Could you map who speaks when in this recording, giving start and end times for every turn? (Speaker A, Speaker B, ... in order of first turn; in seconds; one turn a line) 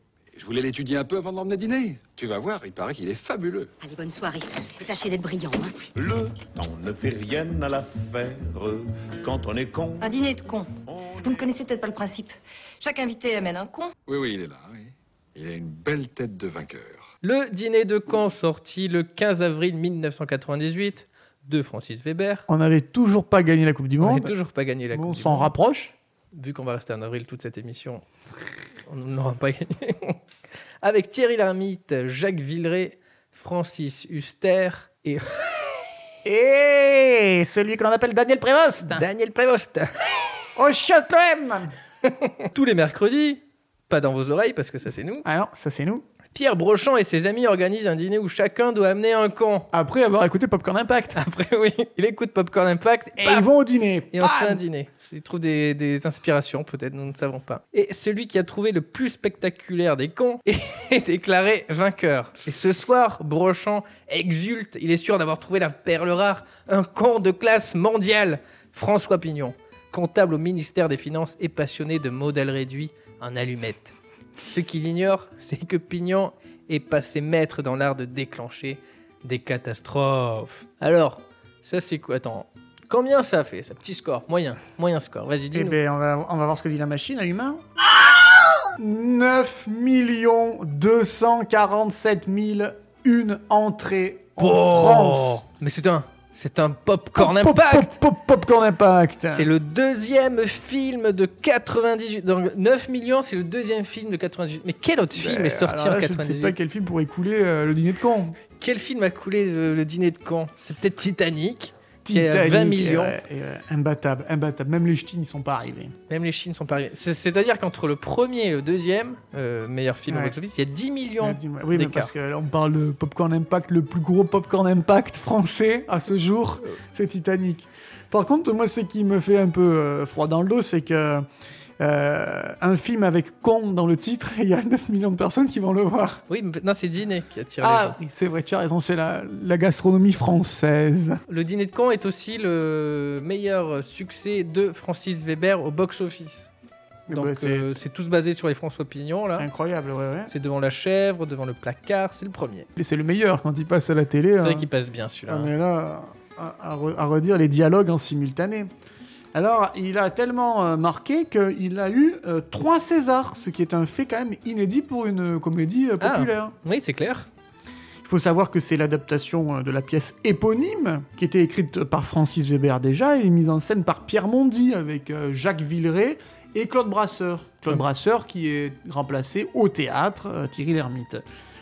Speaker A: 0.3-3.7
Speaker B: 3.8-5.9
Speaker C: 6.0-10.1
Speaker B: 10.0-10.7
Speaker C: 10.8-11.5
Speaker B: 11.2-13.9
Speaker A: 14.1-17.1
Speaker D: 17.2-22.4
Speaker E: 22.5-24.3
Speaker D: 24.0-25.5
Speaker E: 24.9-25.9
Speaker D: 26.3-28.0
Speaker D: 28.9-30.2
Speaker D: 30.8-35.7
Speaker E: 36.2-39.0
Speaker D: 38.8-40.1
Speaker E: 40.5-41.7
Speaker D: 42.0-45.2
Speaker E: 45.2-46.0
Speaker D: 46.3-49.7
Speaker E: 49.7-51.2
Speaker D: 51.1-53.5
Speaker E: 53.2-54.6
Speaker D: 54.1-85.8
Speaker E: 85.5-87.6
Speaker E: 88.8-95.4
Speaker D: 94.4-97.9
Speaker E: 97.2-99.5
Speaker D: 99.3-106.6
Speaker E: 105.1-108.4
Speaker D: 108.6-113.2
Speaker E: 112.0-115.9
Speaker D: 116.1-122.1
Speaker E: 120.1-120.3
Speaker E: 121.2-131.2
Speaker E: 131.8-136.2
Speaker D: 136.3-138.0
Speaker E: 137.6-141.2
Speaker D: 141.3-146.5
Speaker E: 147.1-147.7
Speaker D: 147.1-149.5
Speaker E: 149.4-150.3
Speaker D: 150.3-152.7
Speaker E: 152.8-154.7
Speaker D: 154.3-155.5
Speaker E: 155.3-158.7
Speaker E: 159.3-166.5
Speaker D: 166.0-167.3
Speaker E: 168.0-181.2